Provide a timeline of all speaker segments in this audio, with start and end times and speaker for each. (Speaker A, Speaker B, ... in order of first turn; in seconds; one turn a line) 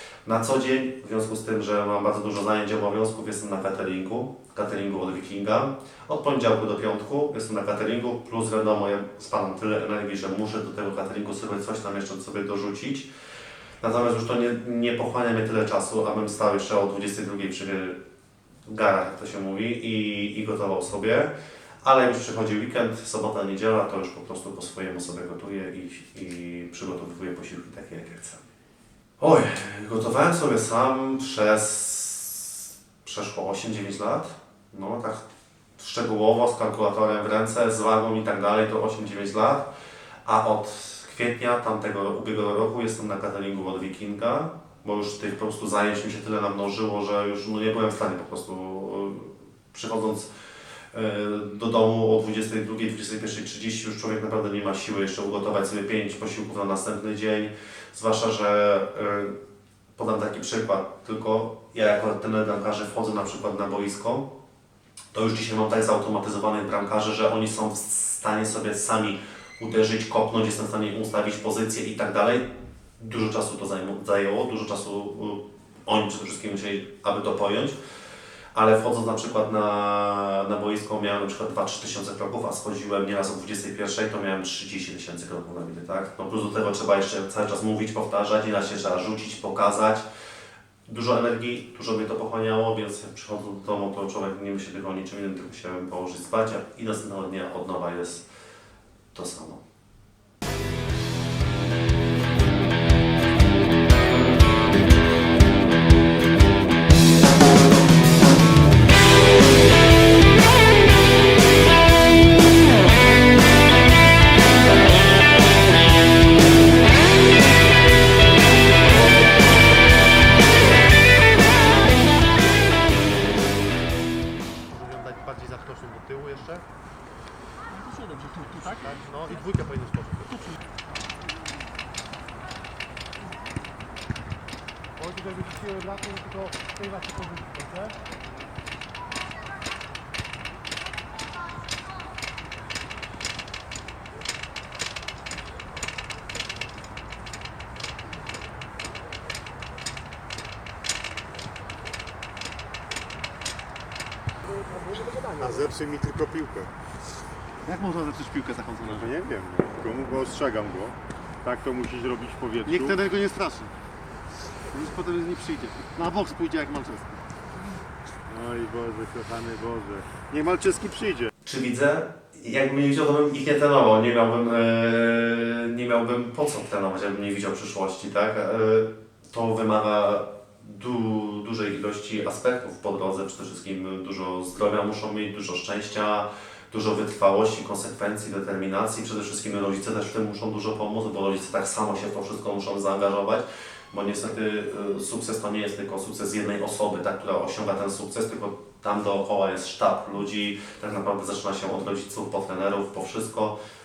Speaker A: 0.2-13.1
Speaker A: 13.8-18.0
Speaker A: 18.7-28.4
Speaker A: 29.2-35.3
Speaker A: 35.8-39.7
Speaker A: 40.2-50.3
Speaker A: 50.9-59.4
Speaker A: 60.0-64.3
Speaker A: 65.1-72.5
Speaker A: 73.0-77.8
Speaker A: 78.5-90.1
Speaker A: 90.9-98.3
Speaker A: 99.1-99.6
Speaker B: 124.7-126.6
Speaker B: 128.1-130.5
Speaker B: 135.0-137.9
Speaker C: 155.4-156.7
Speaker B: 157.7-159.1
Speaker C: 158.9-163.0
Speaker B: 162.7-163.7
Speaker B: 164.7-167.2
Speaker C: 168.3-171.3
Speaker A: 171.4-203.6